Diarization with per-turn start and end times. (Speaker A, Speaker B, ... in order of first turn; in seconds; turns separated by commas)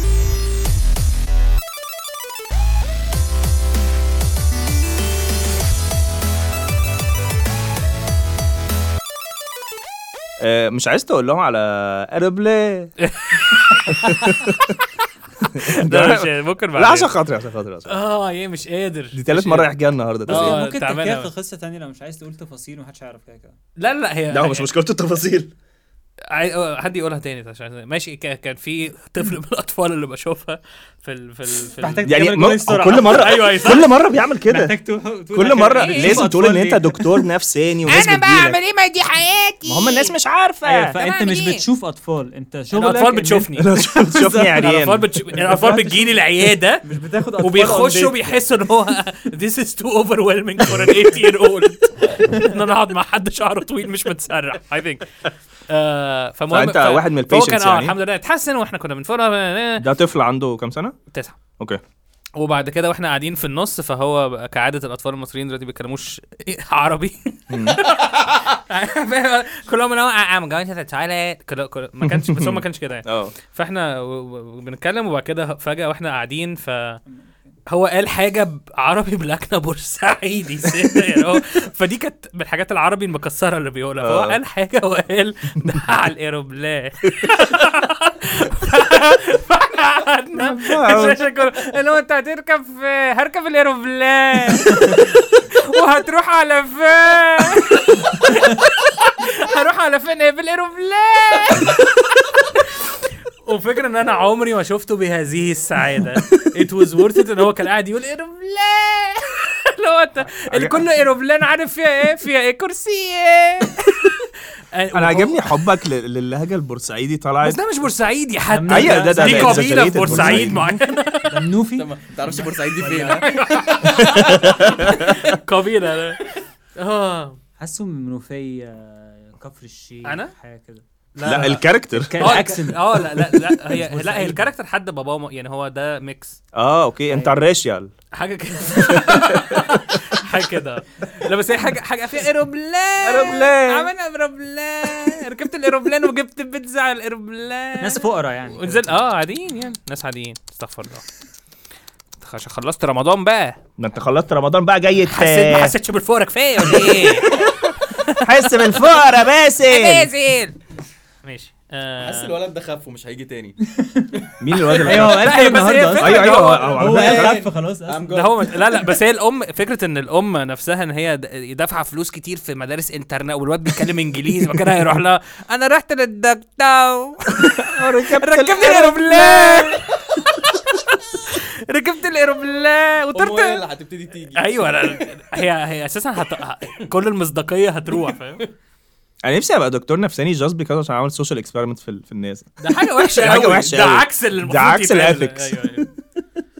Speaker A: 10.4-12.9, Speaker B: 13.1-14.6, Speaker A: 13.8-14.7, Speaker B: 15.4-17.1, Speaker A: 15.5-18.0, Speaker B: 17.9-19.7, Speaker A: 19.1-20.6, Speaker B: 20.3-21.3, Speaker C: 20.3-23.5, Speaker B: 23.8-24.7, Speaker A: 24.3-25.5, Speaker B: 26.3-32.1, Speaker C: 31.8-33.2, Speaker A: 32.0-34.8, Speaker B: 33.0-33.9, Speaker C: 34.5-37.2, Speaker A: 35.3-38.6, Speaker B: 35.7-36.2, Speaker D: 37.9-40.1, Speaker A: 39.6-40.9, Speaker C: 40.6-43.5, Speaker D: 40.9-41.6, Speaker B: 42.7-46.8, Speaker A: 43.6-45.1, Speaker C: 45.3-46.2, Speaker C: 46.8-48.4, Speaker B: 47.4-55.1, Speaker B: 55.7-59.9, Speaker A: 56.5-58.0, Speaker A: 59.8-61.0, Speaker B: 61.1-61.4, Speaker B: 62.3-77.0, Speaker A: 67.5-67.8, Speaker A: 72.0-73.3, Speaker B: 77.7-101.8, Speaker A: 84.0-84.4, Speaker A: 90.3-91.2, Speaker B: 103.4-114.1, Speaker A: 110.5-110.8, Speaker B: 114.7-115.4, Speaker A: 114.9-117.6, Speaker B: 117.4-121.4, Speaker C: 118.5-120.6, Speaker A: 118.7-120.8, Speaker C: 121.3-123.3, Speaker E: 121.7-123.3, Speaker B: 123.2-127.4, Speaker A: 124.0-125.2, Speaker C: 127.6-130.8, Speaker B: 130.0-130.3, Speaker B: 131.1-131.7, Speaker A: 131.2-132.3, Speaker C: 131.9-134.5, Speaker B: 132.2-136.4, Speaker A: 136.5-137.9, Speaker C: 137.1-137.5, Speaker B: 138.1-151.0, Speaker A: 138.8-140.0, Speaker A: 143.0-143.9, Speaker C: 147.8-148.9, Speaker B: 152.2-153.6, Speaker A: 153.8-155.7, Speaker B: 155.1-158.5, Speaker A: 156.7-157.3, Speaker A: 158.2-160.1, Speaker D: 159.7-160.5, Speaker B: 161.2-162.3, Speaker E: 162.0-163.6, Speaker C: 163.8-164.1, Speaker A: 164.4-165.3, Speaker C: 164.8-168.1, Speaker B: 164.9-166.8, Speaker A: 166.0-167.4, Speaker E: 166.4-168.8, Speaker B: 168.1-183.6, Speaker A: 177.4-179.8, Speaker E: 183.1-185.0, Speaker B: 184.3-188.5, Speaker A: 189.2-195.8, Speaker B: 192.6-195.9